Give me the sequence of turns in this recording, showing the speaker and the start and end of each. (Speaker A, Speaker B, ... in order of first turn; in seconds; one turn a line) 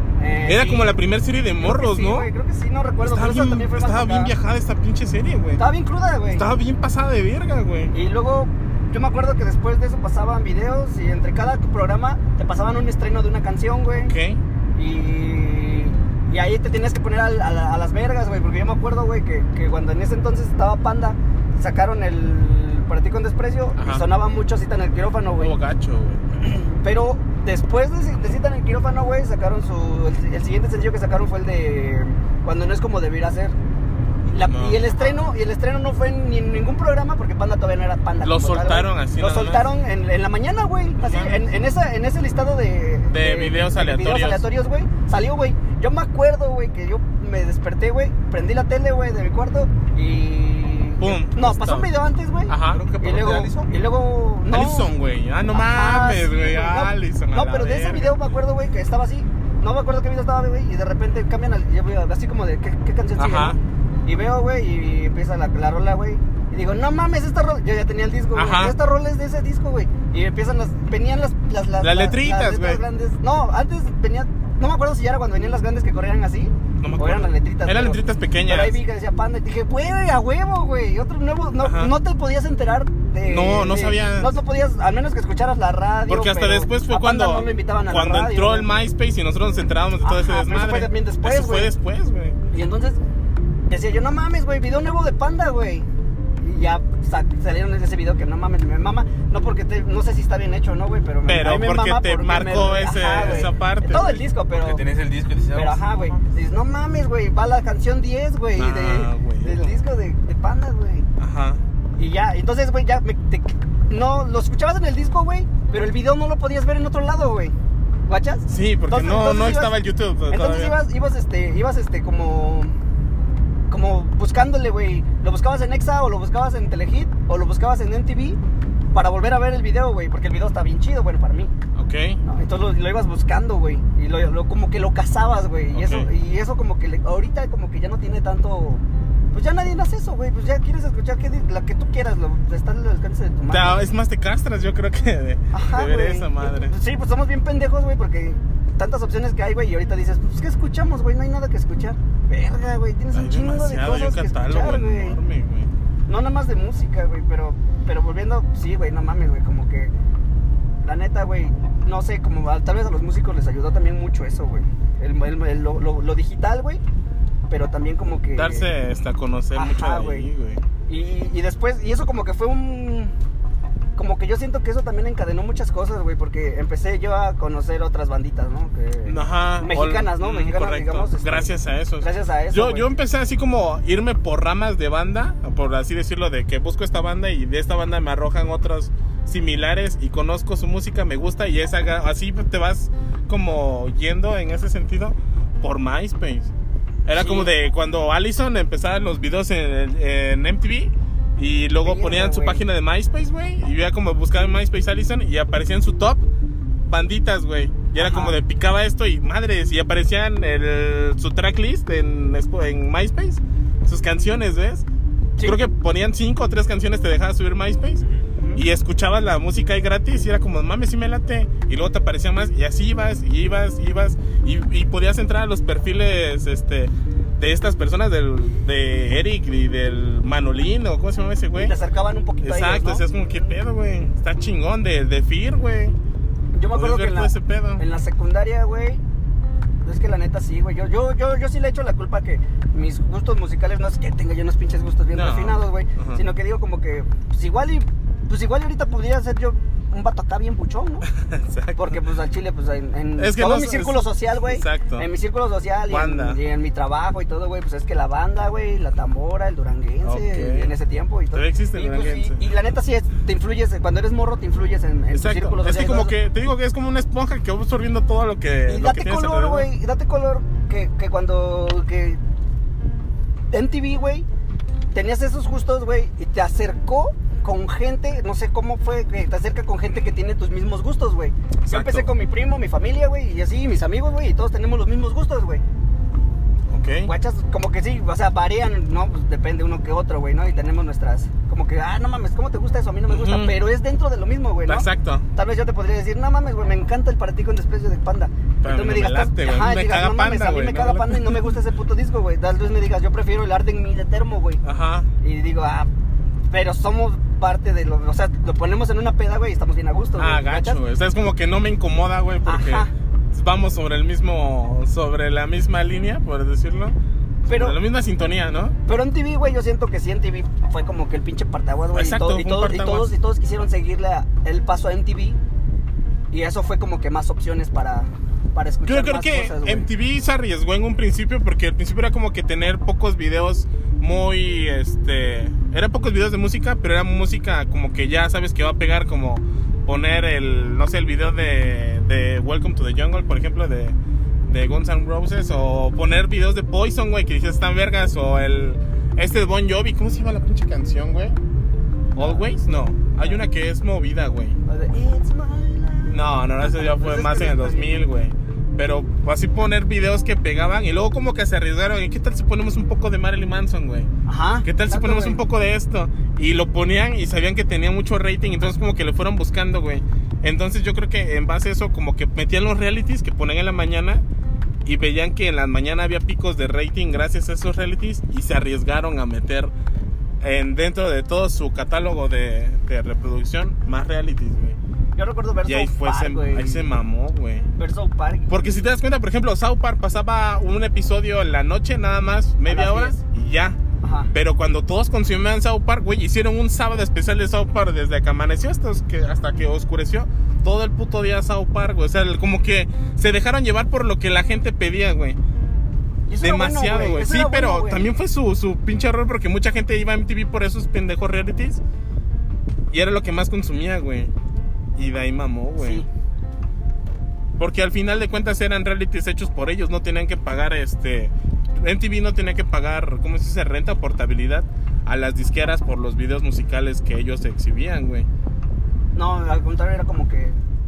Speaker A: 0.2-1.0
Speaker B: 0.5-2.3
Speaker A: 1.6-4.3
Speaker B: 3.0-5.6
Speaker A: 5.6-6.5
Speaker B: 6.3-7.9
Speaker A: 7.9-14.2
Speaker B: 14.1-14.4
Speaker A: 14.8-25.5
Speaker B: 23.8-24.1
Speaker B: 25.4-26.3
Speaker A: 26.4-33.5
Speaker A: 34.3-54.9
Speaker B: 34.5-35.2
Speaker B: 38.2-39.7
Speaker B: 41.0-41.4
Speaker B: 43.1-44.5
Speaker B: 51.0-51.9
Speaker B: 52.5-52.8
Speaker C: 52.7-53.7
Speaker B: 54.5-58.2
Speaker A: 55.5-88.7
Speaker B: 63.2-63.6
Speaker B: 68.3-68.8
Speaker B: 71.8-72.8
Speaker B: 76.8-78.8
Speaker B: 81.6-81.9
Speaker B: 83.2-84.4
Speaker B: 86.1-92.4
Speaker A: 90.0-91.7
Speaker A: 92.5-93.0
Speaker A: 93.7-95.9
Speaker A: 96.4-104.8
Speaker B: 101.2-104.2
Speaker C: 104.5-106.3
Speaker A: 105.5-111.1
Speaker B: 108.5-109.8
Speaker B: 111.2-111.6
Speaker A: 112.0-117.5
Speaker A: 118.1-119.8
Speaker B: 118.5-120.8
Speaker A: 120.3-122.8
Speaker A: 123.7-128.4
Speaker A: 128.9-131.5
Speaker B: 131.8-132.2
Speaker A: 132.2-143.9
Speaker B: 135.7-136.1
Speaker B: 143.5-146.7
Speaker A: 145.5-155.2
Speaker B: 153.1-155.7
Speaker A: 156.1-159.9
Speaker A: 160.8-166.8
Speaker A: 167.5-168.7
Speaker B: 168.3-170.6
Speaker A: 169.5-170.3
Speaker A: 170.9-173.1
Speaker A: 174.0-182.9
Speaker B: 179.1-196.5
Speaker B: 197.1-206.2
Speaker A: 197.1-197.5
Speaker A: 201.8-202.7
Speaker B: 206.9-214.8
Speaker A: 207.9-208.4
Speaker A: 215.4-215.7
Speaker B: 215.4-218.0
Speaker A: 218.4-218.6
Speaker B: 218.6-231.7
Speaker A: 231.6-233.1
Speaker B: 232.4-236.0
Speaker A: 236.5-239.0
Speaker B: 236.7-237.8
Speaker A: 239.8-251.1
Speaker B: 245.1-246.2
Speaker B: 251.2-252.0
Speaker A: 251.8-266.1
Speaker B: 253.2-255.1
Speaker B: 255.9-256.4
Speaker B: 260.0-260.7
Speaker B: 261.3-262.4
Speaker B: 265.1-269.7
Speaker A: 268.7-272.2
Speaker A: 273.5-274.3
Speaker A: 274.9-285.6
Speaker B: 281.7-282.1
Speaker B: 286.7-287.1
Speaker A: 287.1-304.6
Speaker B: 293.1-293.6
Speaker B: 294.7-295.2
Speaker B: 298.6-301.6
Speaker B: 304.6-305.1
Speaker A: 305.2-305.9
Speaker A: 306.5-310.8
Speaker B: 310.2-318.8
Speaker A: 312.4-312.9
Speaker A: 317.5-317.8
Speaker A: 318.9-325.4
Speaker B: 321.9-323.2
Speaker A: 326.3-329.9
Speaker B: 328.9-351.4
Speaker B: 352.1-354.6
Speaker A: 352.2-352.5
Speaker A: 354.7-358.1
Speaker B: 356.1-364.1
Speaker A: 364.3-365.4
Speaker B: 364.6-374.2
Speaker B: 374.9-379.7
Speaker B: 380.4-384.8
Speaker A: 385.2-386.9
Speaker B: 385.6-387.7
Speaker A: 387.8-388.8
Speaker B: 388.5-393.8
Speaker A: 392.7-393.2
Speaker A: 394.0-394.3
Speaker B: 394.3-405.4
Speaker A: 406.3-408.1
Speaker B: 406.4-411.8
Speaker B: 412.9-414.3
Speaker B: 415.0-416.0
Speaker A: 415.8-416.1
Speaker B: 417.6-428.3
Speaker A: 429.1-430.6